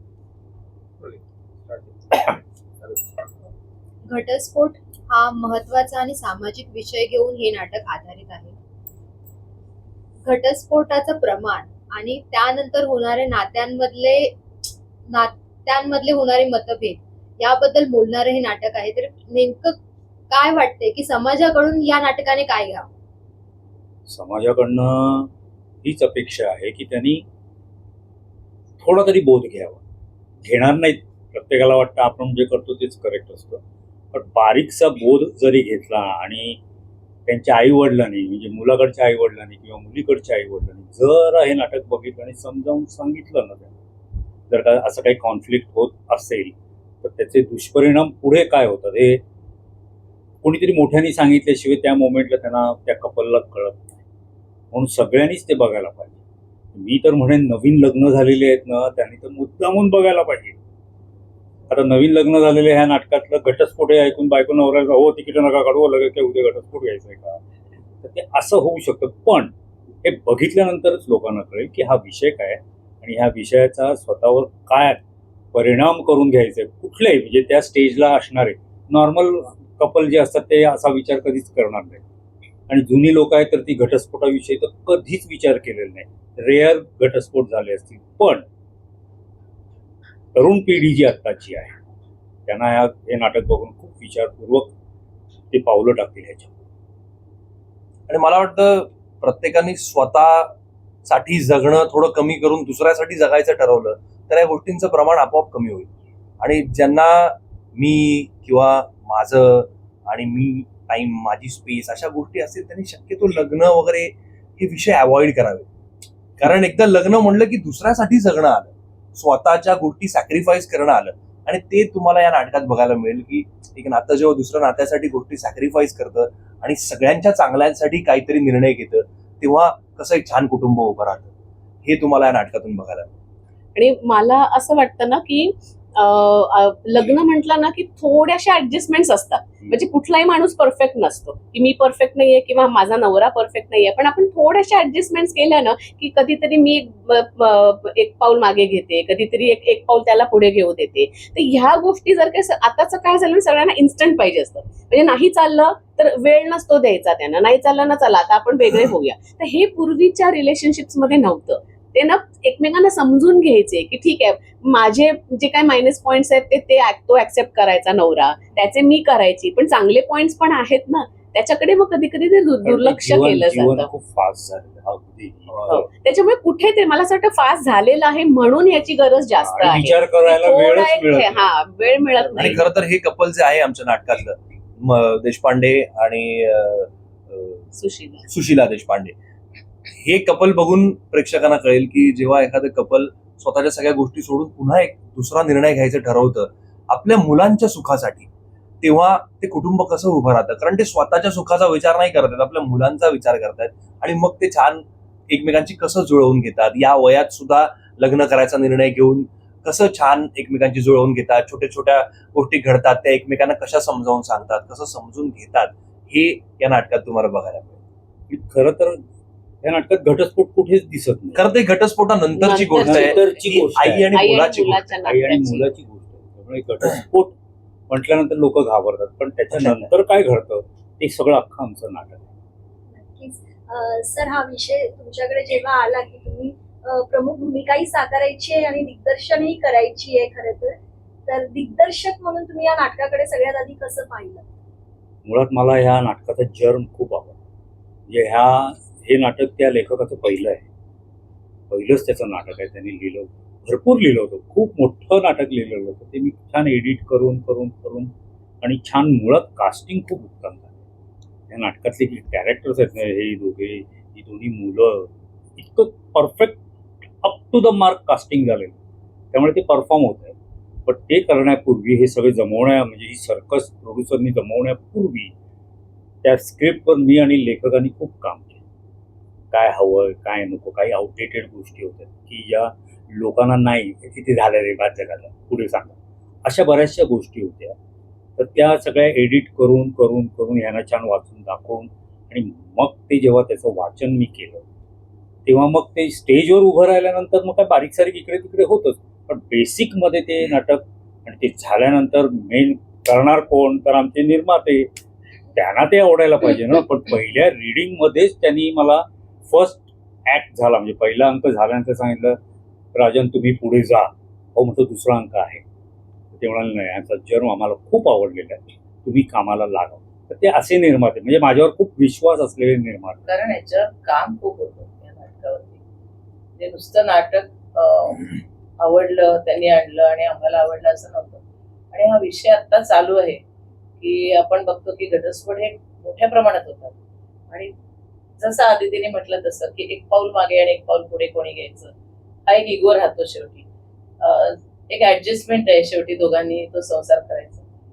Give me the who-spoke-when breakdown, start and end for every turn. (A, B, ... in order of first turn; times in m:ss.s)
0:04.1-0:08.5 A
0:10.2-0:14.4 A
0:15.1-0:19.8 A
0:20.3-0:22.9 A
0:24.1-0:25.3 B
0:25.8-0:27.2 B
0:28.8-0:29.8 B
0:30.4-0:36.6 B
0:37.3-0:43.7 B
0:44.5-0:49.2 B
0:50.4-0:53.9 B
0:54.7-0:56.2 B
0:56.7-1:00.6 B
1:01.7-1:07.4 B
1:08.0-1:09.5 B
1:10.0-1:15.0 B
1:15.5-1:22.0 B
1:22.7-1:28.5 B
1:30.3-1:31.8 B
1:32.5-1:34.7 B
1:35.5-1:36.6 B
1:38.1-1:55.7 C
1:56.4-2:11.3 C
2:11.8-2:13.1 C
2:13.8-2:53.9 D
2:52.6-2:55.8 B
2:55.5-2:55.9 C
2:55.7-3:02.6 D
2:59.4-3:02.7 B
3:02.4-3:07.6 C
3:07.7-3:08.3 D
3:08.3-3:09.2 C
3:10.0-3:18.3 C
3:18.8-3:37.8 C
3:38.3-3:39.0 B
3:39.6-3:41.5 B
3:41.3-3:45.0 C
3:42.3-3:45.7 D
3:42.6-3:44.3 B
3:45.0-3:47.4 B
3:47.9-3:52.3 B
3:49.5-3:49.9 C
3:53.0-4:04.4 E
4:05.2-4:07.4 B
4:08.1-4:10.6 B
4:11.7-4:20.8 B
4:21.5-4:26.6 B
4:27.2-4:28.8 B
4:29.3-4:35.3 B
4:36.2-4:38.6 B
4:39.5-4:47.8 B
4:48.4-4:54.6 B
4:55.5-5:04.9 B
5:05.5-5:12.4 B
5:12.9-5:15.6 B
5:16.3-5:23.2 B
5:23.2-5:25.8 F
5:26.6-5:33.4 F
5:34.0-5:37.0 F
5:38.4-5:41.9 F
5:42.5-5:43.7 F
5:44.2-5:47.6 F